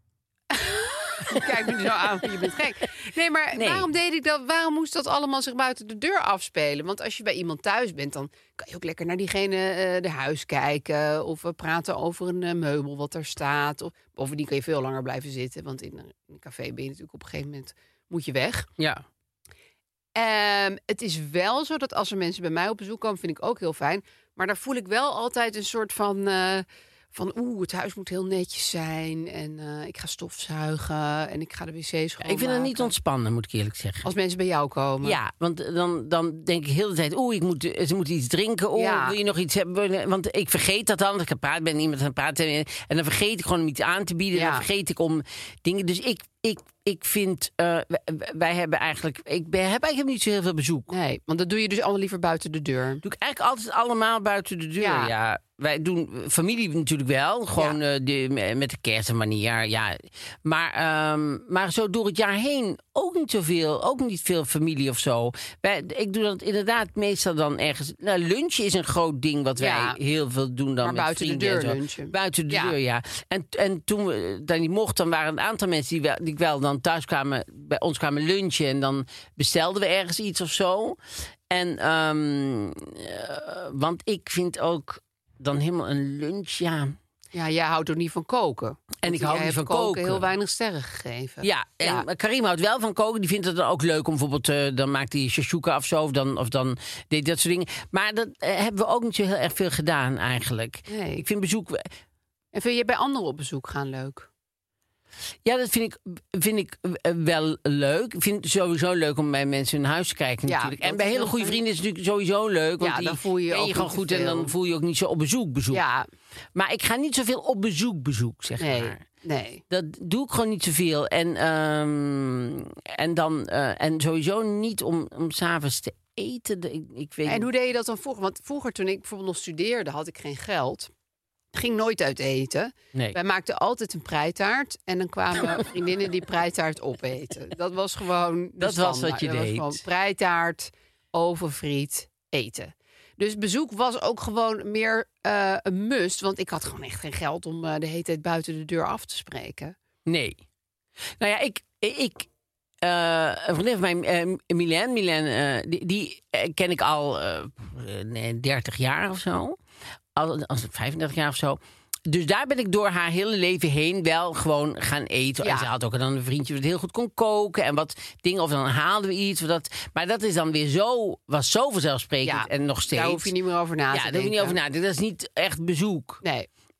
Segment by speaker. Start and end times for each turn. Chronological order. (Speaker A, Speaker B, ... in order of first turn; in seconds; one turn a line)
Speaker A: 0.5-18.7
Speaker B: 3.5-3.9
Speaker B: 18.8-19.0
Speaker A: 20.1-32.9
Speaker B: 32.2-34.1
Speaker A: 34.0-35.2
Speaker B: 35.0-50.9
Speaker A: 38.7-39.2
Speaker A: 44.3-44.7
Speaker A: 50.9-53.0
Speaker B: 53.0-81.0
Speaker A: 54.8-55.1
Speaker A: 69.6-70.0
Speaker A: 70.8-72.8
Speaker B: 81.5-87.0
Speaker A: 87.3-92.1
Speaker B: 89.0-90.3
Speaker B: 91.4-101.9
Speaker A: 100.9-101.2
Speaker A: 102.5-104.3
Speaker B: 105.5-115.8
Speaker A: 110.5-111.6
Speaker A: 112.8-114.5
Speaker A: 115.7-116.1
Speaker B: 116.5-119.0
Speaker A: 118.6-119.6
Speaker B: 119.7-127.5
Speaker A: 127.3-130.9
Speaker A: 131.5-149.8
Speaker B: 138.6-139.8
Speaker B: 150.1-150.4
Speaker B: 151.2-152.3
Speaker B: 152.8-159.6
Speaker B: 160.2-173.3
Speaker A: 165.4-165.7
Speaker A: 172.2-174.6
Speaker B: 173.9-176.2